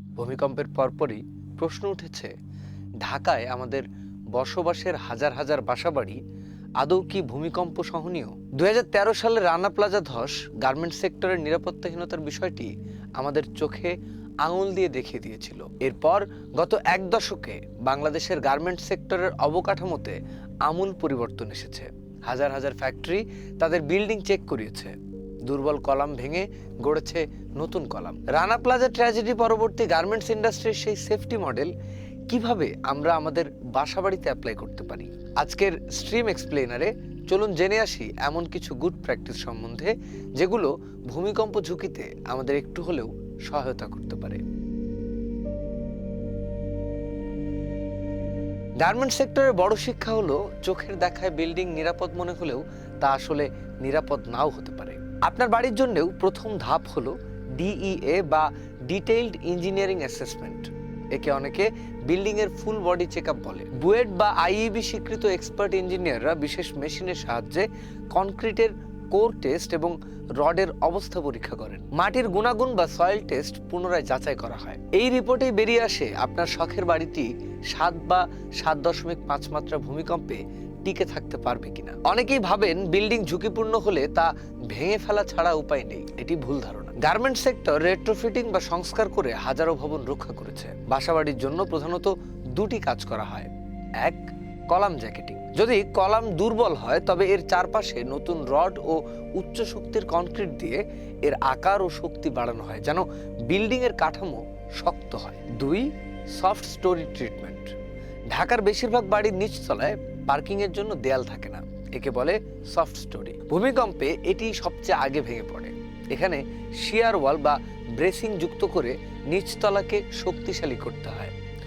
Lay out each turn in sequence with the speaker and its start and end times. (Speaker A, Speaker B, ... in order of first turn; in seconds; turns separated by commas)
Speaker A: 0.2-2.3, Speaker A: 3.0-6.2, Speaker A: 6.8-31.7, Speaker A: 32.3-44.4, Speaker A: 48.8-107.7, Speaker A: 108.3-121.3